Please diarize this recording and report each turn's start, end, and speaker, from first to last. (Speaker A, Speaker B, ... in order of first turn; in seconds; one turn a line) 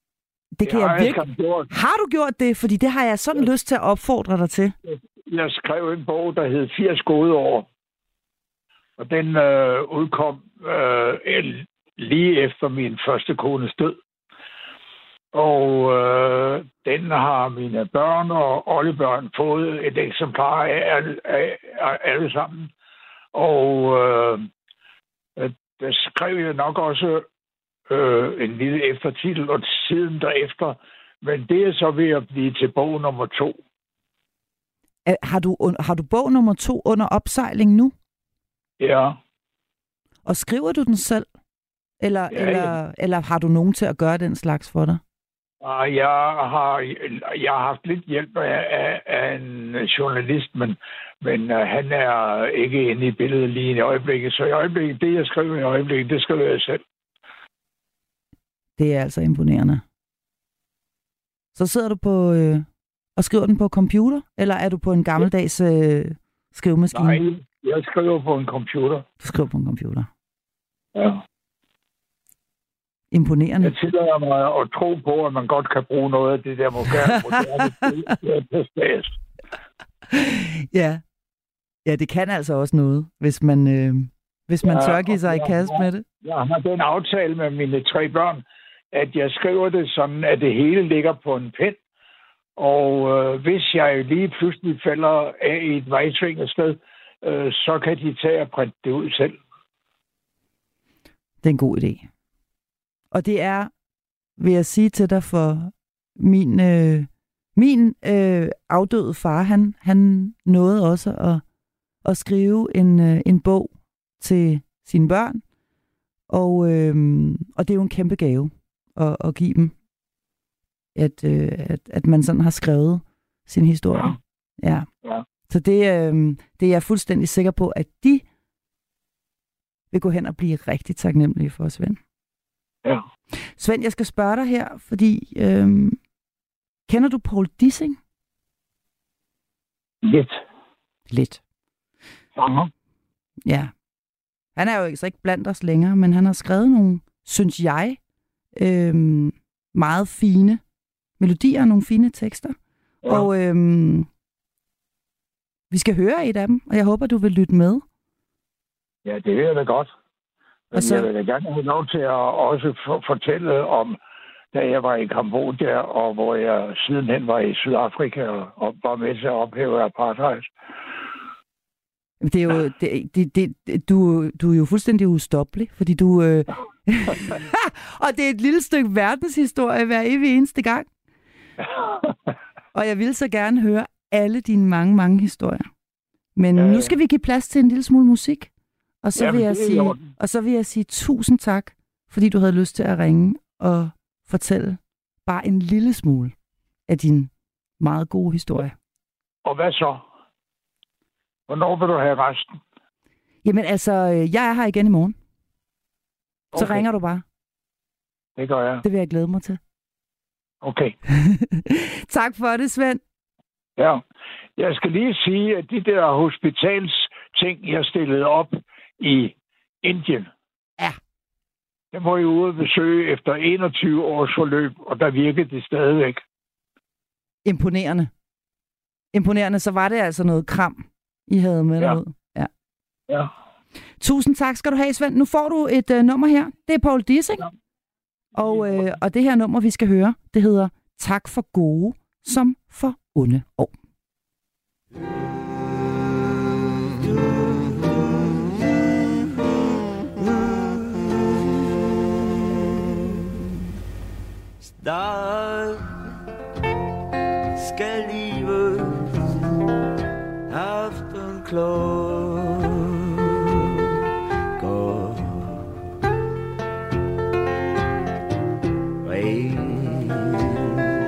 Speaker A: 0.6-4.8
Speaker B: 0.6-1.7
Speaker B: 4.8-7.7
Speaker B: 9.0-14.0
Speaker B: 15.3-22.7
Speaker B: 23.4-24.5
Speaker B: 25.4-27.3
Speaker B: 27.9-33.6
Speaker A: 35.1-37.9
Speaker B: 38.8-39.2
Speaker A: 40.2-41.3
Speaker A: 42.0-45.0
Speaker B: 42.3-42.7
Speaker B: 45.6-56.8
Speaker A: 58.8-59.8
Speaker A: 61.5-67.2
Speaker B: 66.9-69.0
Speaker A: 69.2-70.1
Speaker B: 71.0-71.2
Speaker A: 73.1-73.8
Speaker B: 73.6-79.1
Speaker A: 80.1-81.0
Speaker A: 81.8-86.1
Speaker B: 84.6-91.8
Speaker B: 92.6-99.4
Speaker A: 101.4-102.1
Speaker A: 103.1-103.7
Speaker A: 104.4-111.4
Speaker A: 112.0-115.4
Speaker A: 116.3-119.8
Speaker A: 121.0-124.9
Speaker A: 125.5-128.2
Speaker A: 129.9-132.0
Speaker A: 133.6-136.0
Speaker A: 136.9-138.0
Speaker B: 140.0-140.4
Speaker A: 141.1-141.4
Speaker B: 142.4-142.7
Speaker A: 143.4-143.7
Speaker A: 144.6-148.0
Speaker A: 148.6-150.6
Speaker A: 151.2-152.6
Speaker A: 153.1-154.1
Speaker A: 155.7-157.8
Speaker B: 159.1-159.9
Speaker B: 160.7-164.0
Speaker A: 160.7-161.1
Speaker B: 164.5-170.5
Speaker A: 172.2-180.9
Speaker B: 181.6-182.2
Speaker A: 182.7-185.7
Speaker A: 186.4-188.5
Speaker B: 186.6-186.9
Speaker A: 189.0-196.3
Speaker B: 189.2-190.1
Speaker A: 196.9-198.8
Speaker B: 199.4-200.1
Speaker B: 201.5-202.5
Speaker A: 203.4-205.2
Speaker B: 206.5-206.9
Speaker A: 206.6-207.2
Speaker B: 208.4-208.8
Speaker A: 208.8-209.6
Speaker B: 210.6-210.9
Speaker A: 211.1-213.0
Speaker B: 213.8-214.0
Speaker B: 214.6-220.3
Speaker B: 221.9-226.2
Speaker A: 227.4-228.1
Speaker A: 229.1-232.5
Speaker A: 234.0-237.5
Speaker A: 238.3-243.7
Speaker C: 245.1-246.1
Speaker C: 246.8-249.6
Speaker C: 250.1-251.7
Speaker C: 253.0-253.2
Speaker C: 254.6-256.0
Speaker C: 257.6-259.4
Speaker C: 260.5-262.9
Speaker C: 264.6-265.7
Speaker C: 269.0-270.8